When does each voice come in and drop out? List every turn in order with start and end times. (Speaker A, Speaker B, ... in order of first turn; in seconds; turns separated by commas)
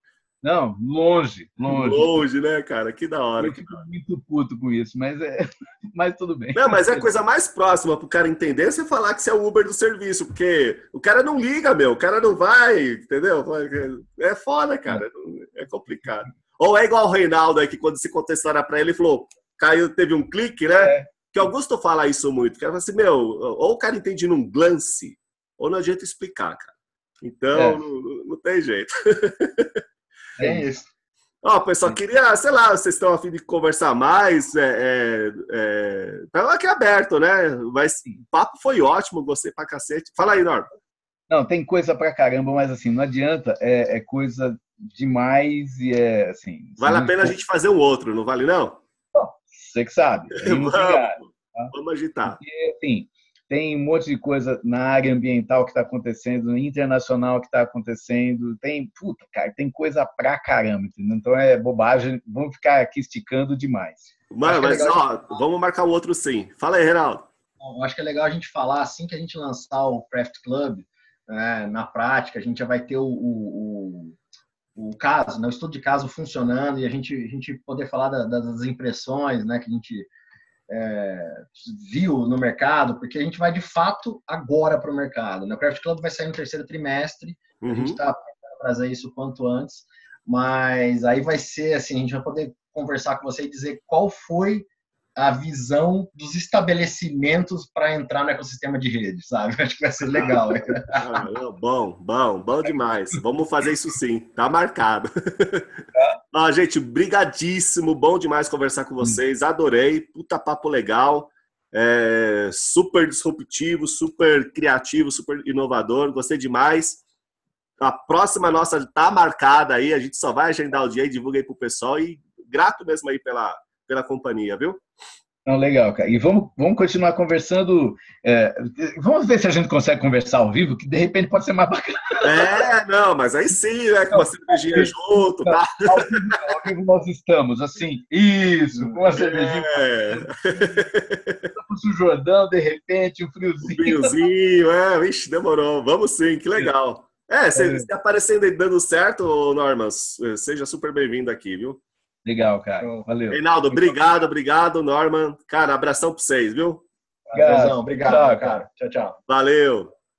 Speaker A: 0.4-2.2, Speaker B: 1.7-3.9, Speaker A: 3.4-7.1, Speaker B: 6.5-29.8, Speaker A: 20.7-21.1, Speaker A: 27.5-27.8, Speaker A: 30.4-30.7, Speaker C: 30.4-30.9, Speaker B: 31.4-40.7, Speaker A: 41.3-47.4, Speaker B: 46.8-48.8, Speaker A: 49.1-51.7, Speaker B: 50.4-52.4, Speaker A: 52.3-64.1, Speaker B: 64.3-67.3, Speaker C: 64.5-65.1, Speaker C: 67.6-74.2, Speaker C: 74.8-80.1, Speaker C: 80.7-101.0, Speaker B: 87.6-88.0, Speaker A: 100.2-100.5, Speaker B: 101.0-105.7, Speaker B: 106.3-117.0, Speaker B: 117.8-124.8, Speaker A: 125.5-132.7, Speaker B: 132.2-136.4, Speaker A: 134.1-140.8, Speaker C: 138.8-139.0, Speaker B: 139.1-141.5, Speaker A: 141.5-144.2, Speaker B: 143.6-151.8, Speaker A: 147.6-147.9, Speaker A: 152.2-153.4, Speaker C: 152.8-153.1, Speaker B: 153.3-156.8, Speaker C: 157.3-159.2, Speaker A: 157.3-158.6, Speaker B: 159.3-159.9